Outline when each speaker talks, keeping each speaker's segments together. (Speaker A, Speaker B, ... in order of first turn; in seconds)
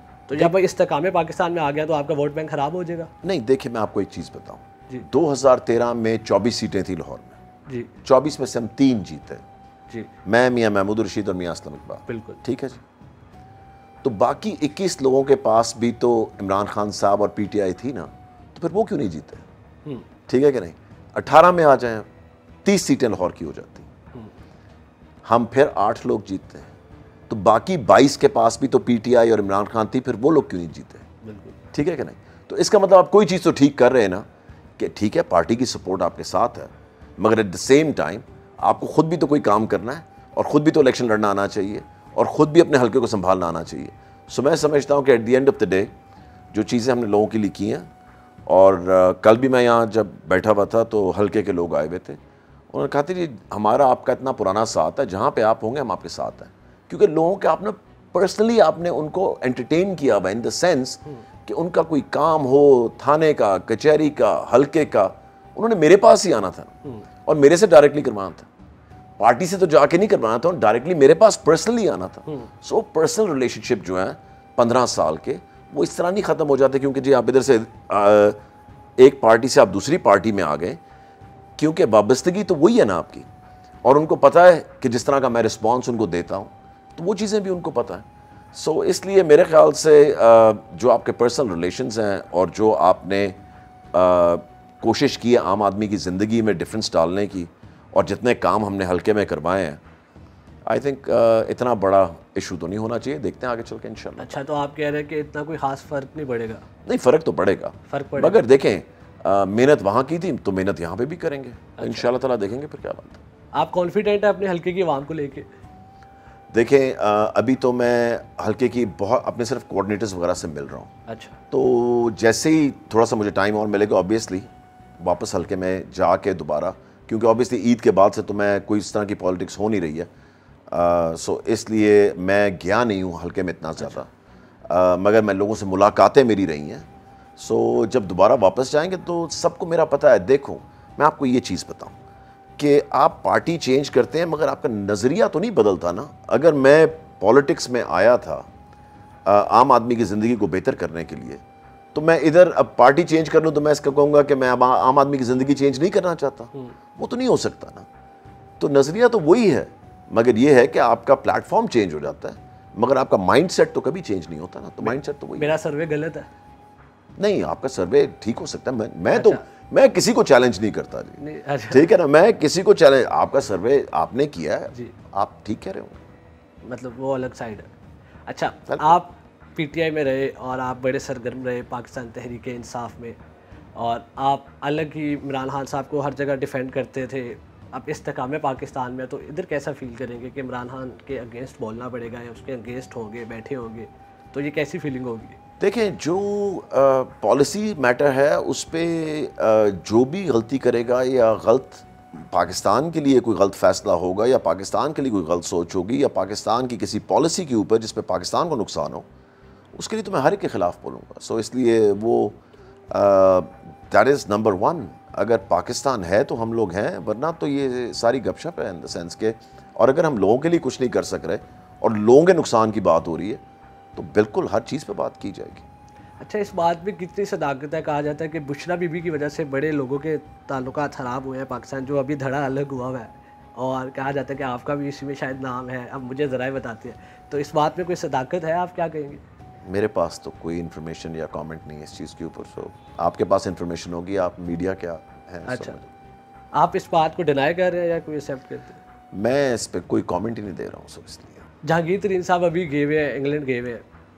Speaker A: 0.3-3.1, 7.7-7.9, 12.1-12.4, 31.2-31.6, 104.2-106.6, 107.9-108.4, 111.8-112.1, 113.5-115.5, 121.1-121.4, 133.8-134.0, 164.8-166.3, 169.1-169.4, 171.2-171.9, 176.7-177.7, 178.3-183.2, 183.8-195.4, 226.2-239.2, 245.5-245.8, 246.6-248.8, 251.6-253.8
Speaker B: 3.2-7.4, 8.0-9.4, 10.2-12.8, 14.0-19.5, 20.3-22.1, 22.6-23.9, 25.2-26.7, 27.3-31.1, 31.7-34.2, 34.8-45.9, 46.5-47.9, 48.5-52.2, 52.7-66.7, 67.2-68.5, 69.2-78.4, 79.0-80.8, 81.6-83.3, 83.8-93.4, 93.9-99.8, 100.7-104.4, 106.8-113.2, 116.5-120.9, 121.5-130.1, 130.7-134.1, 134.7-136.9, 137.4-142.0, 142.6-148.5, 149.3-151.4, 151.9-157.9, 158.6-165.6, 167.2-176.0, 178.7-179.0, 195.6-209.1, 209.7-212.4, 212.9-223.4, 224.0-225.7, 239.7-245.9, 249.1-251.5